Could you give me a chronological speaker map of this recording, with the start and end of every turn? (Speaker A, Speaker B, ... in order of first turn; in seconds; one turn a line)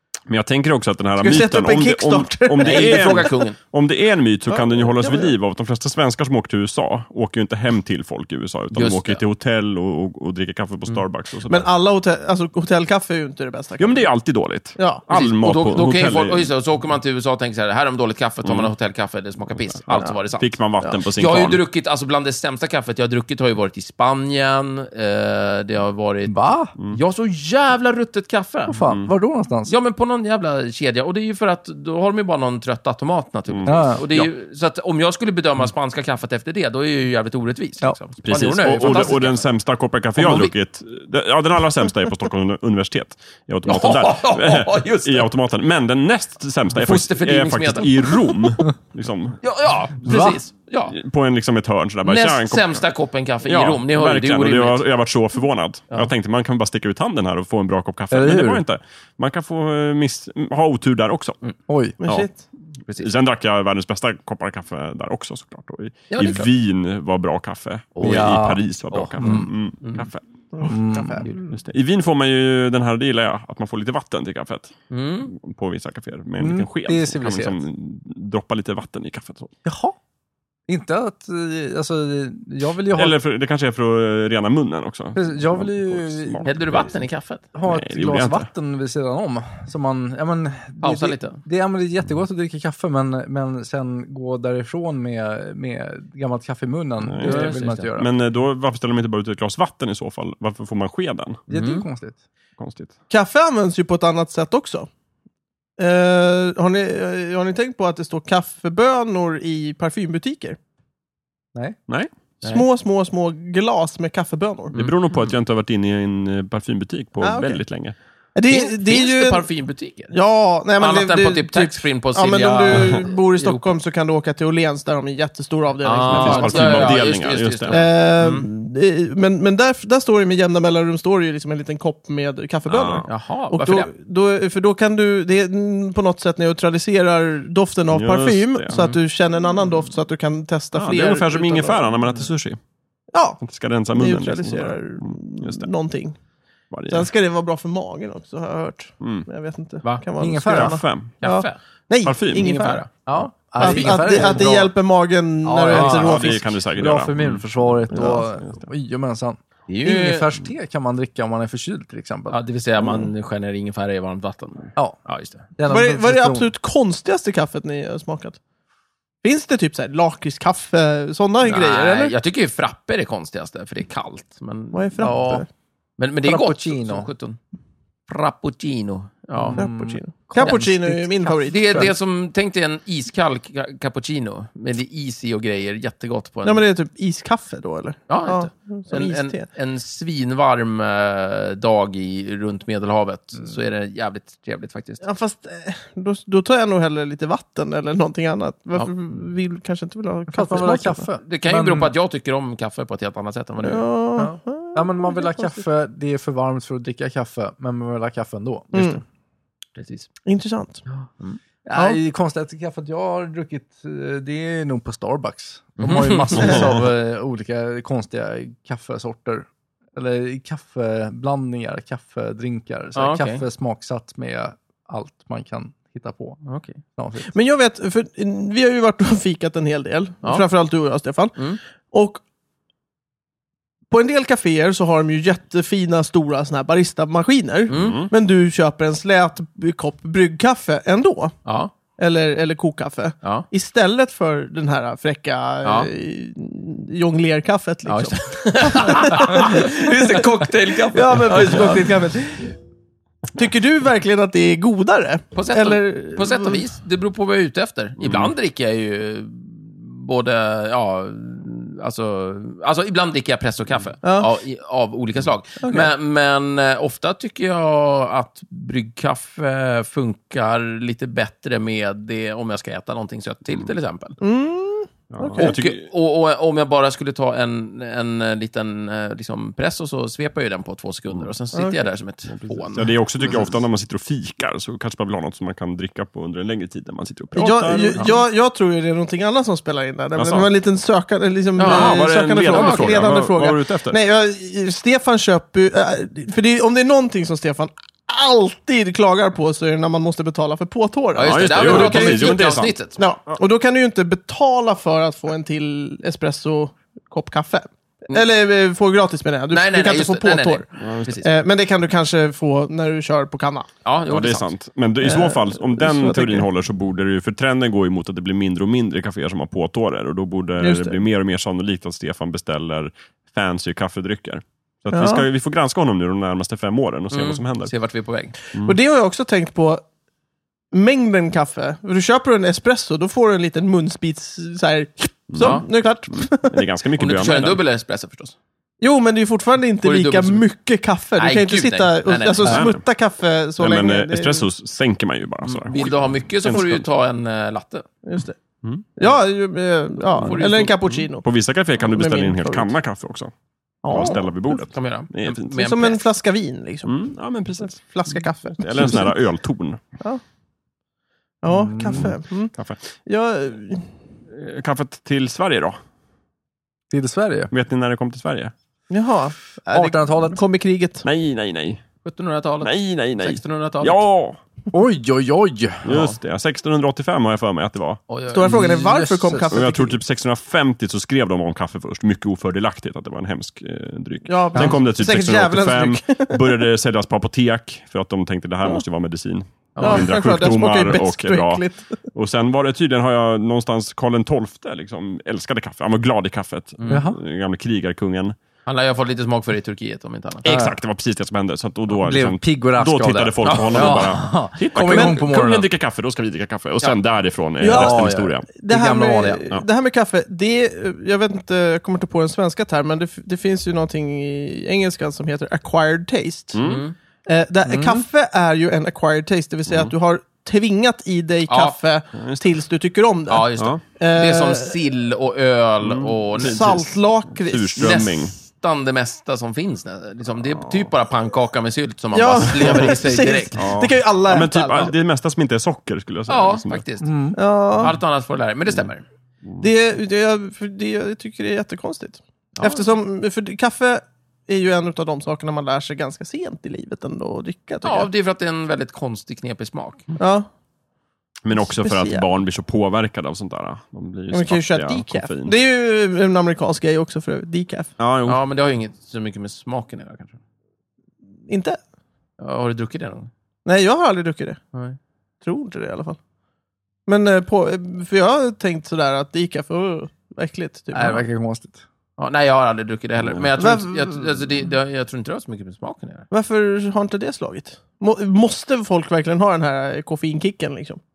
Speaker A: 0.3-11.7
Speaker B: 1.2-3.4
Speaker C: 2.6-3.6
Speaker B: 4.5-5.3
Speaker C: 8.7-9.2
Speaker B: 11.5-14.0
Speaker A: 13.8-16.5
Speaker B: 14.8-15.0
Speaker C: 15.1-28.8
Speaker A: 18.4-18.7
Speaker A: 19.8-21.6
Speaker D: 26.2-26.7
Speaker D: 28.7-29.7
Speaker A: 28.9-29.1
Speaker C: 29.7-39.5
Speaker A: 33.5-34.3
Speaker D: 33.6-34.0
Speaker A: 38.2-49.4
Speaker C: 40.1-40.5
Speaker C: 43.6-45.3
Speaker C: 46.7-48.5
Speaker C: 49.4-51.0
Speaker D: 50.0-50.4
Speaker A: 50.9-52.9
Speaker C: 52.0-54.8
Speaker A: 53.4-61.4
Speaker D: 58.1-58.6
Speaker D: 61.7-62.0
Speaker B: 62.0-62.4
Speaker A: 63.0-70.2
Speaker C: 66.1-66.5
Speaker C: 68.0-68.3
Speaker D: 68.0-68.6
Speaker C: 68.9-70.1
Speaker D: 69.2-69.5
Speaker B: 70.5-71.5
Speaker D: 70.6-71.3
Speaker A: 71.5-74.8
Speaker C: 74.9-75.3
Speaker A: 75.3-79.5
Speaker D: 76.4-77.6
Speaker D: 79.6-80.0
Speaker D: 80.7-83.2
Speaker A: 82.9-86.9
Speaker D: 85.1-86.8
Speaker C: 86.4-87.4
Speaker D: 87.5-98.1
Speaker A: 87.7-88.5
Speaker C: 90.8-91.4
Speaker A: 97.0-101.4
Speaker C: 97.2-97.9
Speaker D: 101.5-102.2
Speaker C: 101.5-101.8
Speaker A: 102.6-102.9
Speaker B: 103.1-104.9
Speaker B: 105.8-110.6
Speaker B: 112.4-114.8
Speaker A: 114.7-118.0
Speaker B: 117.2-117.6
Speaker B: 118.3-119.5
Speaker C: 118.5-120.1
Speaker B: 120.1-127.0
Speaker C: 120.8-123.6
Speaker A: 122.7-123.0
Speaker C: 125.8-128.5
Speaker A: 126.1-127.8
Speaker B: 127.7-141.9
Speaker A: 132.7-133.1
Speaker C: 133.0-133.9
Speaker A: 137.9-138.8
Speaker C: 138.7-139.0
Speaker A: 140.7-142.6
Speaker B: 143.1-143.4
Speaker A: 143.4-145.7
Speaker B: 143.9-146.2
Speaker A: 146.7-147.1
Speaker B: 146.9-152.8
Speaker A: 149.0-149.3
Speaker D: 150.2-150.8
Speaker A: 150.5-151.1
Speaker C: 151.2-151.6
Speaker A: 152.0-152.5
Speaker C: 152.3-153.0
Speaker D: 153.1-154.7
Speaker C: 153.6-154.5
Speaker B: 153.6-156.4
Speaker D: 155.4-162.4
Speaker C: 155.7-156.0
Speaker A: 155.9-157.7
Speaker B: 157.9-158.3
Speaker C: 159.7-160.3
Speaker C: 162.3-165.5
Speaker D: 165.6-166.5
Speaker B: 165.7-168.4
Speaker B: 169.2-172.1
Speaker C: 171.4-175.4
Speaker B: 174.7-175.5
Speaker C: 176.0-177.4
Speaker D: 176.2-177.1
Speaker C: 178.1-179.6
Speaker D: 179.3-181.9
Speaker B: 179.6-181.9
Speaker C: 181.5-186.6
Speaker B: 186.4-189.4
Speaker C: 188.1-195.0
Speaker B: 195.0-201.1
Speaker D: 200.3-201.9
Speaker C: 201.2-203.9
Speaker B: 203.6-205.6
Speaker D: 204.2-209.0
Speaker B: 208.7-209.0
Speaker C: 209.8-210.1
Speaker B: 210.2-210.8
Speaker D: 211.7-226.4
Speaker C: 215.8-216.8
Speaker C: 222.9-223.4
Speaker C: 226.4-226.8
Speaker D: 226.9-227.3
Speaker B: 227.3-231.3
Speaker B: 231.9-232.2
Speaker B: 233.9-241.3
Speaker C: 237.7-238.0
Speaker A: 237.7-238.1
Speaker C: 241.4-241.7
Speaker B: 242.0-252.5
Speaker C: 245.6-245.9
Speaker C: 247.8-252.1
Speaker B: 253.3-256.6
Speaker C: 255.3-274.2
Speaker A: 258.0-258.3
Speaker B: 264.0-264.3
Speaker B: 265.6-265.9
Speaker B: 274.2-275.6
Speaker A: 275.1-275.9
Speaker C: 275.4-283.5
Speaker B: 281.5-281.8
Speaker A: 282.3-288.1
Speaker B: 287.3-302.4
Speaker A: 290.1-290.5
Speaker C: 291.6-293.1
Speaker A: 291.6-294.0
Speaker C: 301.1-303.0
Speaker A: 301.2-302.7
Speaker B: 303.0-310.6
Speaker C: 309.5-311.3
Speaker A: 310.8-311.1
Speaker B: 311.2-313.7
Speaker C: 313.8-314.5
Speaker A: 314.1-327.7
Speaker B: 315.0-316.5
Speaker B: 320.6-321.0
Speaker B: 324.9-325.2
Speaker C: 327.1-328.3
Speaker B: 328.5-329.8
Speaker B: 330.7-336.5
Speaker A: 335.3-337.6
Speaker C: 335.4-335.6
Speaker C: 337.0-338.3
Speaker B: 338.8-344.5
Speaker C: 339.8-340.4
Speaker C: 341.2-342.6
Speaker A: 342.4-342.8
Speaker A: 343.6-346.9
Speaker C: 345.4-347.9
Speaker B: 348.0-348.4
Speaker B: 348.9-351.2
Speaker C: 350.1-350.9
Speaker A: 350.2-350.5
Speaker A: 351.2-353.3
Speaker B: 351.8-352.7
Speaker B: 353.8-354.3
Speaker A: 353.9-355.6
Speaker C: 354.5-356.0
Speaker B: 355.6-356.9
Speaker A: 356.8-357.8
Speaker B: 357.6-359.1
Speaker A: 358.6-359.8
Speaker B: 361.4-362.5
Speaker D: 361.5-362.1
Speaker B: 363.1-363.9
Speaker A: 364.3-365.8
Speaker D: 366.9-367.5
Speaker A: 367.5-368.5
Speaker B: 368.9-371.0
Speaker D: 369.7-370.4
Speaker A: 371.0-371.8
Speaker C: 372.0-374.0
Speaker A: 372.6-374.4
Speaker D: 374.7-375.9
Speaker C: 375.8-376.2
Speaker A: 375.8-378.0
Speaker C: 378.1-378.6
Speaker B: 378.3-380.0
Speaker D: 378.4-379.6
Speaker A: 379.5-398.4
Speaker B: 384.2-386.6
Speaker C: 389.8-390.1
Speaker B: 389.8-392.0
Speaker C: 396.8-397.1
Speaker D: 396.9-397.2
Speaker C: 398.6-400.6
Speaker D: 400.4-400.8
Speaker A: 400.4-408.5
Speaker D: 401.9-405.7
Speaker C: 403.4-404.1
Speaker B: 404.9-405.2
Speaker B: 407.6-416.6
Speaker D: 407.6-409.4
Speaker A: 416.5-416.8
Speaker C: 416.6-416.9
Speaker B: 417.2-424.7
Speaker D: 417.6-418.0
Speaker C: 421.5-421.8
Speaker A: 422.1-422.4
Speaker C: 423.3-426.8
Speaker A: 425.8-428.3
Speaker B: 426.4-428.0
Speaker C: 427.8-433.6
Speaker A: 430.5-430.9
Speaker B: 432.1-434.9
Speaker A: 433.6-436.8
Speaker C: 436.3-439.0
Speaker D: 437.0-437.4
Speaker B: 437.3-437.9
Speaker B: 439.6-448.1
Speaker C: 442.6-442.9
Speaker C: 447.8-450.1
Speaker B: 450.2-450.5
Speaker A: 451.4-455.5
Speaker B: 451.6-452.2
Speaker B: 454.3-457.9
Speaker A: 458.0-458.4
Speaker C: 458.3-460.3
Speaker B: 461.5-461.8
Speaker C: 462.4-463.3
Speaker B: 463.6-464.6
Speaker B: 465.4-466.2
Speaker B: 467.1-471.2
Speaker D: 470.9-471.8
Speaker C: 472.2-476.3
Speaker A: 473.2-473.4
Speaker B: 473.6-474.2
Speaker B: 476.3-481.0